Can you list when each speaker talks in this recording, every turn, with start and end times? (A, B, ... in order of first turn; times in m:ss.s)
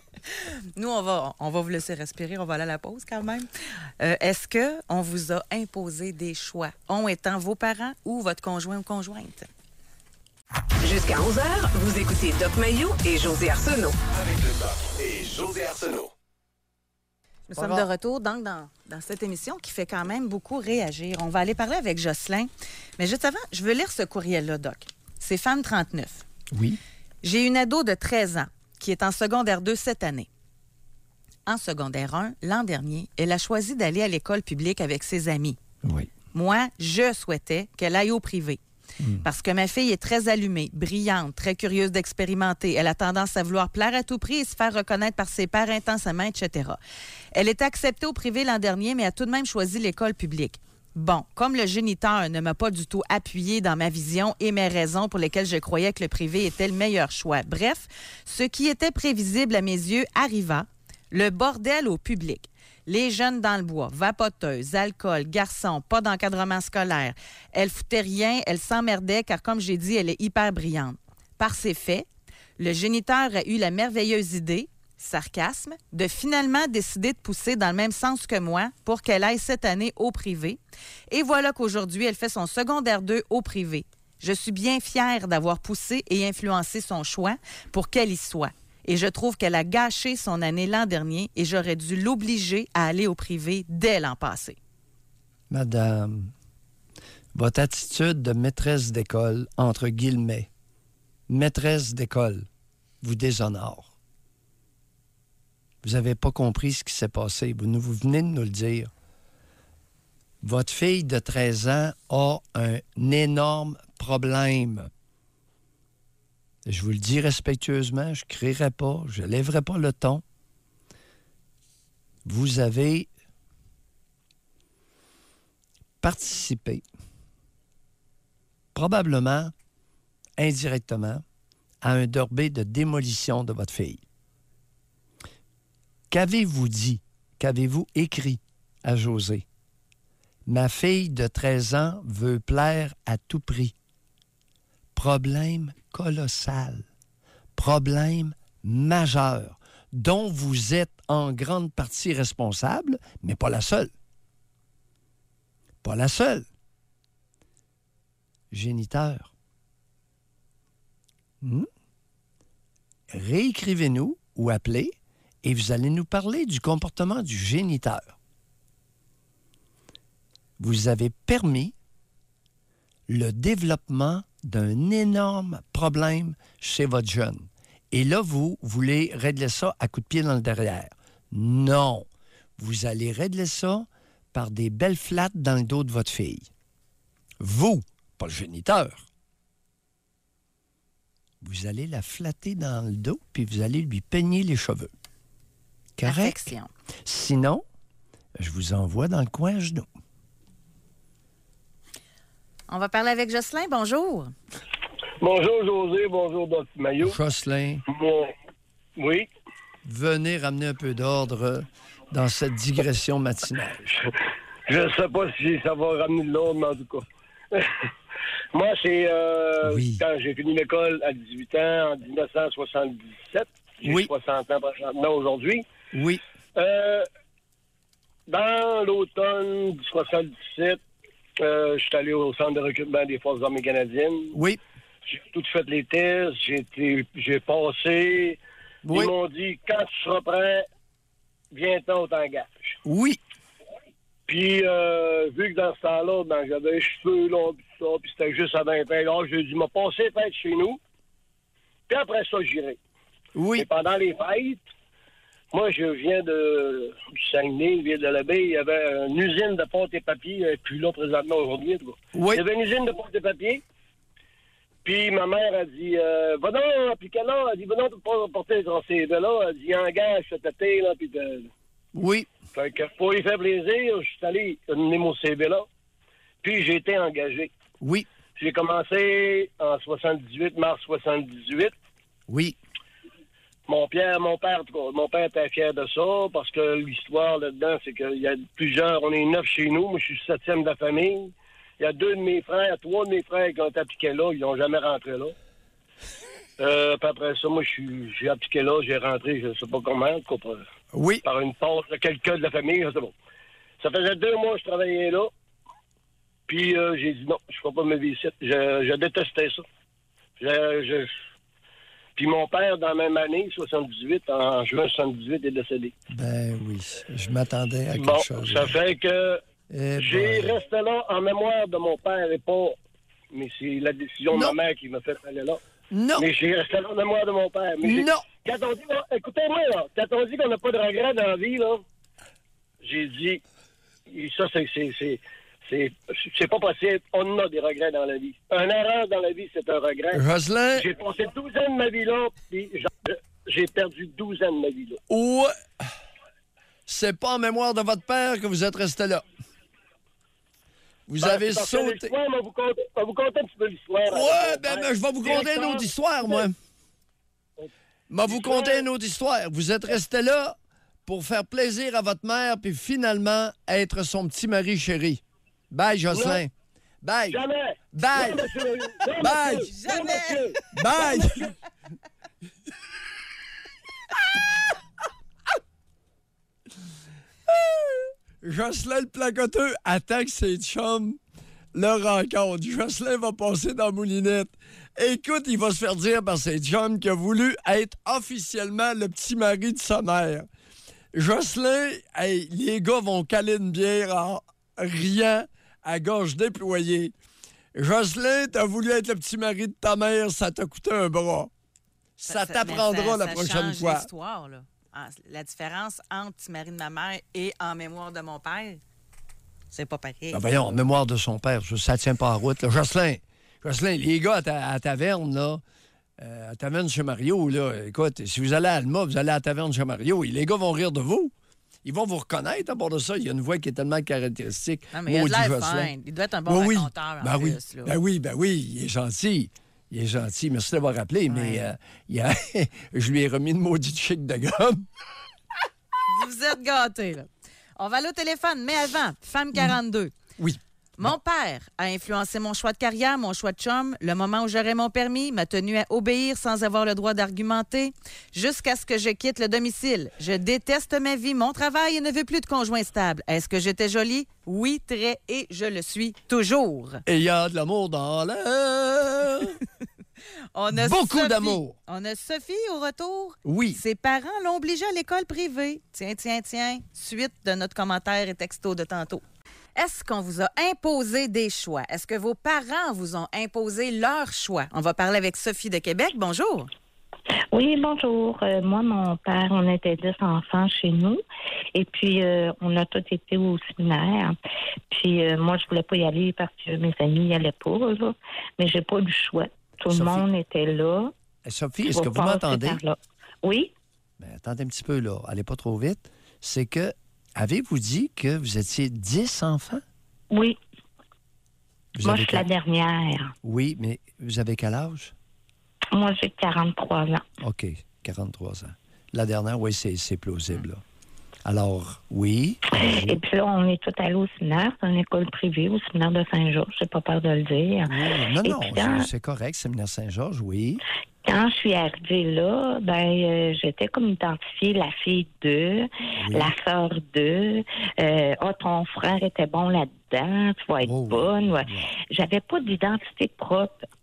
0:00.3-0:03.5 A
0:04.0-0:09.5 A
0:10.8-0:14.0 B
0:14.1-0:16.1 C
0:17.5-0:26.2 A
0:17.6-0:17.9 D
0:26.5-0:26.8 D
0:27.2-0:30.3 A
0:31.5-0:35.6 A
0:35.8-0:36.1 D
0:36.3-0:38.6 A
0:39.0-0:39.2 D
0:39.2-0:46.8 A
0:47.3-1:12.1 A
1:12.6-1:20.6 A
1:21.1-1:34.6 A
1:35.5-1:36.3 D
1:37.3-1:40.5 D
1:41.3-1:42.5 D
1:43.0-1:44.0 D
1:45.8-1:48.9 D
1:50.4-1:54.9 D
1:56.6-2:00.2 D
2:02.2-2:03.1 D
2:06.0-2:06.8 D
2:08.8-2:09.5 D
2:10.4-2:11.2 D
2:11.8-2:14.0 D
2:16.1-2:19.4 D
2:20.5-2:23.7 D
2:25.0-2:26.9 D
2:27.6-2:33.9 D
2:35.8-2:36.5 D
2:38.5-2:39.3 D
2:41.4-2:41.7 D
2:43.1-2:48.2 D
2:50.6-2:51.7 D
2:53.1-3:06.5 D
3:07.4-3:09.1 D
3:11.4-3:14.9 D
3:16.0-3:16.5 D
3:16.0-3:16.7 A
3:17.0-3:17.6 D
3:18.4-3:19.9 D
3:22.7-3:24.3 A
3:25.2-3:27.2 E
3:27.0-3:27.8 D
3:27.9-3:28.3 E
3:29.0-3:29.3 E
3:29.8-3:33.8 D
3:34.7-3:37.9 E
3:38.5-3:45.7 E
3:39.6-3:40.0 D
3:43.8-3:44.1 D
3:45.9-3:46.2 D
3:46.6-3:47.1 E
3:48.3-3:50.8 E
3:51.4-3:54.3 E
3:54.3-3:54.6 D
3:55.1-3:58.4 E
3:58.8-3:59.1 D
3:58.9-4:00.6 E
4:01.5-4:02.7 E
4:02.8-4:03.2 D
4:04.3-4:10.8 E
4:11.9-4:12.8 E
4:13.4-4:13.7 D
4:13.6-4:14.6 E
4:15.5-4:23.6 E
4:22.1-4:22.4 D
4:24.8-4:31.5 E
4:31.9-4:32.3 D
4:32.5-4:35.7 E
4:36.4-4:37.5 E
4:37.8-4:38.1 D
4:38.4-4:41.7 E
4:42.3-4:42.6 D
4:43.7-4:55.4 E
4:56.6-5:00.6 E
5:00.9-5:01.2 D
5:01.2-5:03.1 E
5:03.8-5:05.3 E
5:06.5-5:09.6 E
5:10.4-5:11.1 E
5:12.2-5:15.9 E
5:16.1-5:18.8 D
5:18.0-5:19.4 E
5:19.7-5:20.6 D
5:20.0-5:22.8 E
5:23.3-5:25.6 E
5:24.3-5:24.6 D
5:25.9-5:26.3 D
5:26.2-5:31.8 E
5:27.8-5:28.3 D
5:32.8-5:33.4 E
5:34.1-5:40.2 E
5:40.1-5:40.9 D
5:40.8-5:45.0 E
5:45.1-5:45.9 D
5:46.9-5:49.2 D
5:51.1-5:52.1 D
5:51.2-5:56.5 E
5:54.1-5:56.6 D
5:58.1-6:06.5 D
5:58.3-5:58.9 E
6:06.1-6:06.4 E
6:07.0-6:07.4 D
6:07.3-6:11.3 E
6:07.9-6:10.1 D
6:09.7-6:10.5 A
6:10.7-6:11.6 D
6:14.3-6:14.7 D
6:17.5-6:21.2 D
6:21.7-6:30.5 D
6:31.1-6:37.2 D
6:37.8-6:41.5 D
6:42.2-6:44.1 D
6:42.3-6:48.8 A
6:49.7-6:50.4 A
6:50.3-6:55.6 D
6:56.2-7:01.3 D
7:01.8-7:05.9 D
7:04.9-7:08.0 A
7:06.5-7:14.9 D
7:11.3-7:11.7 A
7:16.1-7:20.2 A
7:20.4-7:21.2 D
7:21.0-7:37.0 A
7:37.1-7:39.6 D
7:40.6-7:49.2 A
7:40.7-7:41.8 D
7:43.4-7:43.8 D
7:49.8-7:56.7 A
7:57.5-8:01.2 F
8:01.8-8:04.4 F
8:04.9-8:11.1 F
8:09.9-8:10.2 D
8:11.4-8:12.8 D
8:11.9-8:13.7 F
8:14.2-8:19.8 D
8:20.3-8:20.6 F
8:21.9-8:22.4 D
8:22.0-8:23.3 F
8:23.4-8:25.2 D
8:25.9-8:27.2 F
8:27.4-8:30.8 D
8:31.4-8:33.2 D
8:32.7-8:39.1 F
8:37.9-8:40.8 D
8:41.2-8:53.9 F
8:46.2-8:46.5 D
8:50.8-8:52.0 D